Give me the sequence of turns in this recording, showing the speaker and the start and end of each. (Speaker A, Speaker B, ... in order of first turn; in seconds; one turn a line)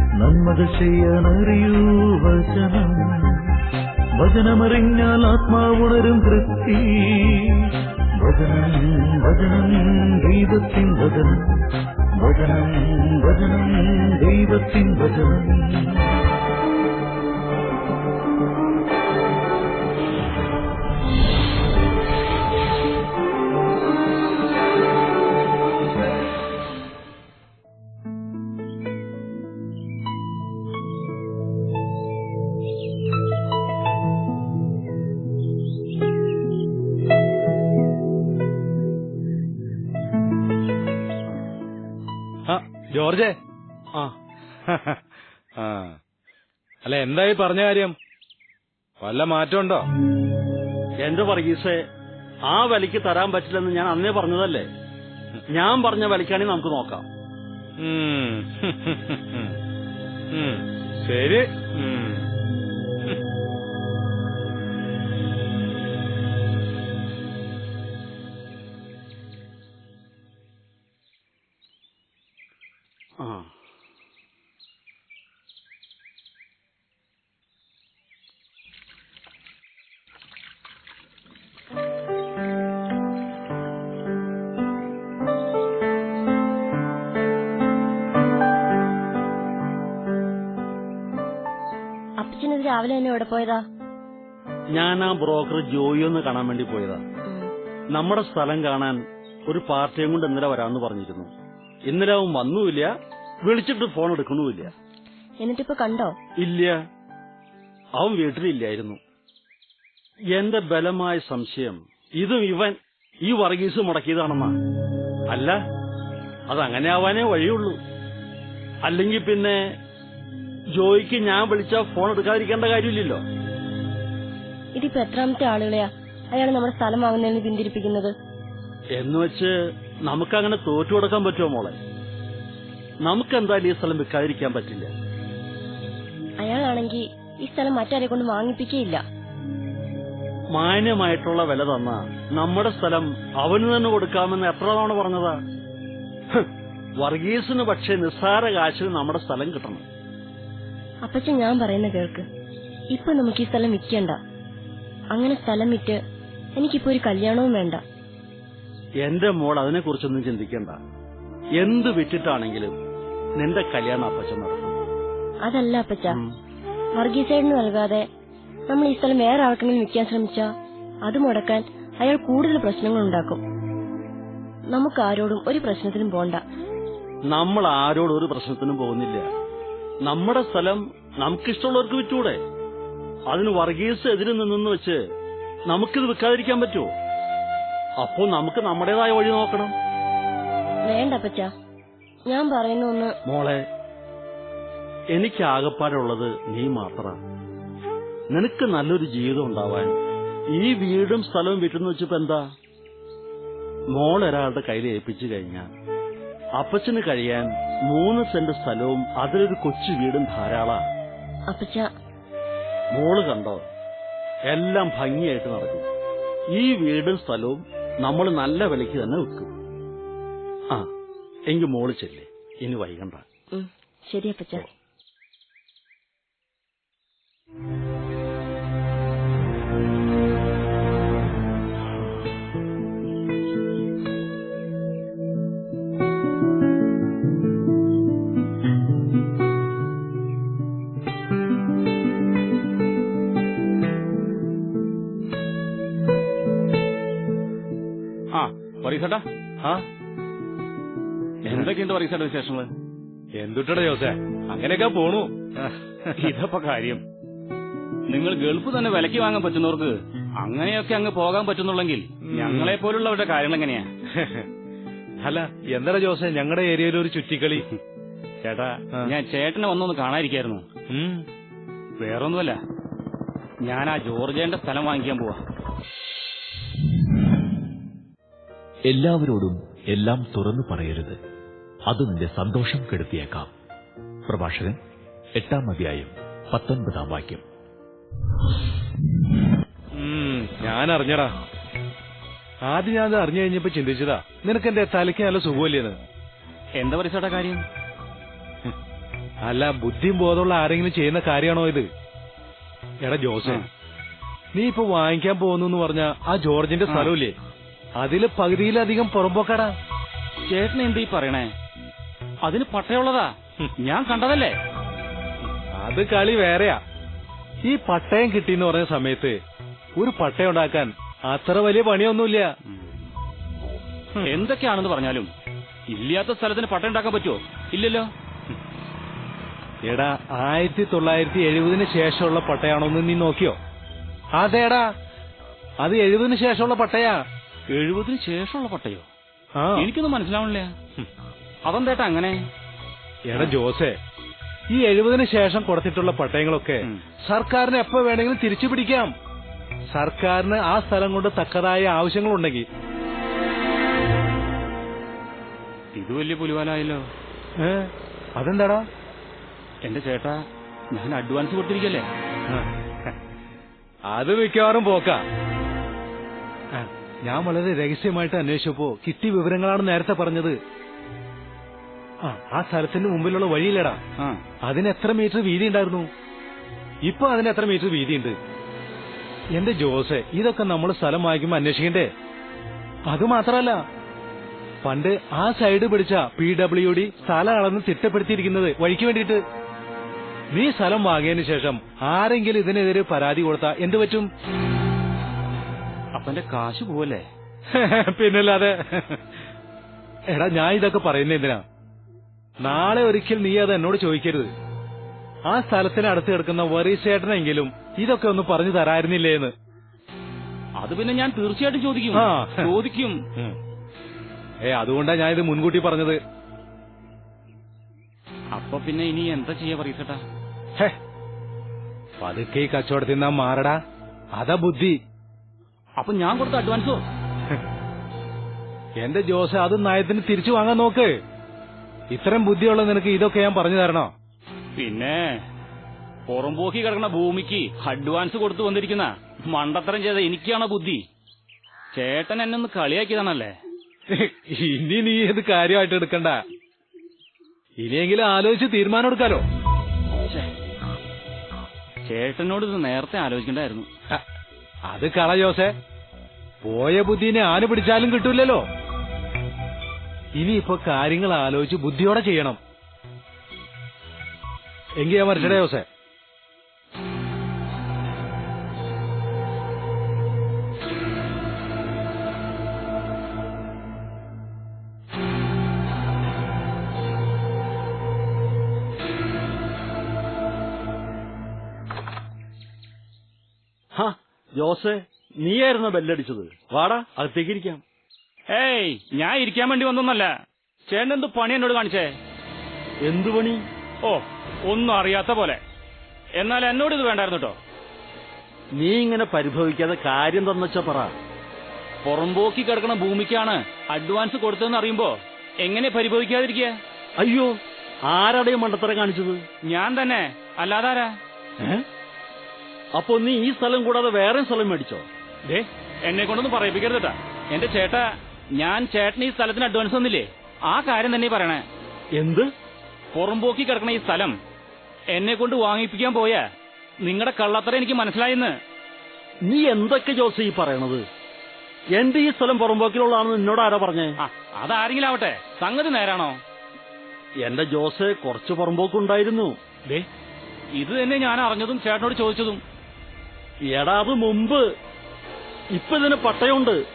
Speaker A: 0.2-3.4
Speaker A: 4.2-7.7
Speaker A: 8.2-11.6
Speaker A: 12.2-16.1
Speaker B: 42.5-43.4
Speaker B: 44.7-45.0
Speaker B: 45.6-46.0
Speaker B: 46.9-48.0
Speaker B: 49.0-49.9
Speaker C: 51.0-51.8
Speaker C: 52.5-54.7
Speaker C: 55.5-57.1
Speaker B: 57.8-59.5
Speaker B: 60.3-62.2
Speaker C: 73.2-73.5
Speaker D: 92.2-93.6
Speaker C: 94.7-97.0
Speaker C: 97.9-101.3
Speaker C: 101.9-102.9
Speaker C: 103.4-104.7
Speaker D: 105.4-106.2
Speaker C: 106.4-106.8
Speaker C: 108.0-109.0
Speaker C: 110.3-114.6
Speaker C: 115.3-115.6
Speaker C: 116.5-117.8
Speaker C: 118.8-119.8
Speaker C: 120.8-123.2
Speaker D: 124.8-128.1
Speaker C: 129.0-131.8
Speaker C: 133.0-134.9
Speaker D: 136.4-139.0
Speaker C: 140.5-145.4
Speaker C: 147.0-149.8
Speaker D: 151.1-152.3
Speaker D: 152.9-154.2
Speaker D: 155.1-156.0
Speaker D: 156.6-157.8
Speaker C: 159.0-160.8
Speaker C: 161.6-162.7
Speaker C: 163.4-164.8
Speaker D: 165.4-166.2
Speaker C: 166.1-166.3
Speaker D: 167.0-168.1
Speaker D: 168.7-170.5
Speaker D: 171.1-173.4
Speaker D: 174.7-176.4
Speaker C: 177.3-179.3
Speaker C: 180.1-182.4
Speaker C: 183.3-185.0
Speaker C: 185.7-186.9
Speaker C: 188.0-189.7
Speaker D: 190.9-191.5
Speaker D: 192.3-193.1
Speaker C: 193.3-193.7
Speaker C: 195.1-197.2
Speaker C: 198.3-200.0
Speaker C: 200.5-202.4
Speaker C: 203.9-205.7
Speaker C: 206.6-210.8
Speaker D: 211.5-211.9
Speaker C: 212.9-213.7
Speaker C: 214.5-215.9
Speaker C: 216.5-219.5
Speaker C: 221.5-223.2
Speaker D: 223.5-224.7
Speaker E: 248.3-249.2
Speaker E: 251.5-252.7
Speaker B: 253.4-256.3
Speaker E: 256.2-257.0
Speaker E: 258.1-263.9
Speaker B: 262.3-262.8
Speaker B: 264.1-264.5
Speaker B: 265.2-267.6
Speaker E: 268.4-270.6
Speaker B: 270.9-271.2
Speaker E: 272.0-272.6
Speaker E: 273.6-275.4
Speaker F: 278.9-281.2
Speaker F: 281.9-283.5
Speaker F: 284.3-284.8
Speaker F: 285.4-287.4
Speaker B: 289.9-291.3
Speaker B: 292.7-296.0
Speaker E: 296.8-297.6
Speaker B: 299.4-301.9
Speaker B: 303.0-303.6
Speaker B: 304.5-307.4
Speaker E: 306.9-307.1
Speaker B: 308.0-309.8
Speaker E: 310.5-311.5
Speaker E: 312.4-314.6
Speaker B: 315.8-316.8
Speaker B: 317.6-319.4
Speaker B: 320.0-322.5
Speaker E: 324.2-325.3
Speaker E: 325.9-328.6
Speaker B: 329.9-333.6
Speaker B: 334.4-334.9
Speaker B: 335.8-337.2
Speaker E: 337.7-339.1
Speaker B: 339.6-339.9
Speaker E: 339.8-340.8
Speaker E: 341.7-342.4
Speaker B: 343.3-344.0
Speaker B: 344.7-349.1
Speaker B: 349.9-352.7
Speaker E: 355.9-357.1
Speaker B: 357.6-358.9
Speaker E: 359.9-362.1
Speaker B: 364.1-365.2
Speaker B: 366.7-370.6
Speaker B: 372.2-374.0
Speaker B: 374.6-376.1
Speaker B: 377.1-378.4
Speaker B: 379.5-382.1
Speaker B: 383.1-383.8
Speaker B: 384.8-389.4
Speaker B: 390.5-394.3
Speaker E: 396.1-397.3
Speaker B: 397.7-399.2
Speaker B: 400.3-401.6
Speaker B: 402.6-404.5
Speaker B: 405.5-409.5
Speaker E: 410.8-413.2
Speaker B: 412.1-412.8
Speaker B: 414.7-416.2
Speaker E: 418.5-420.2
Speaker B: 422.2-423.8
Speaker B: 424.4-425.0
Speaker E: 426.0-427.0
Speaker B: 429.0-431.1
Speaker B: 432.1-434.1
Speaker E: 434.8-435.4
Speaker E: 436.3-441.0
Speaker E: 441.9-443.5
Speaker B: 444.1-446.4
Speaker B: 447.8-449.4
Speaker E: 452.1-453.9
Speaker B: 454.9-455.8
Speaker B: 456.6-458.6
Speaker B: 460.4-462.6
Speaker B: 465.0-465.9
Speaker C: 483.9-487.8
Speaker E: 488.5-490.3
Speaker E: 490.9-492.1
Speaker C: 493.0-493.6
Speaker E: 494.0-495.6
Speaker E: 496.4-497.6
Speaker C: 498.8-501.2
Speaker E: 502.1-506.8
Speaker C: 507.2-507.6
Speaker C: 508.1-509.4
Speaker E: 509.7-511.2
Speaker C: 513.0-515.1
Speaker E: 515.5-521.6
Speaker C: 522.2-522.5
Speaker E: 523.1-524.4
Speaker E: 525.1-526.5
Speaker E: 527.0-528.6
Speaker C: 529.4-531.0
Speaker C: 531.9-534.1
Speaker E: 534.2-536.4
Speaker C: 537.4-539.6
Speaker E: 540.8-542.6
Speaker C: 543.7-544.7
Speaker C: 545.7-546.8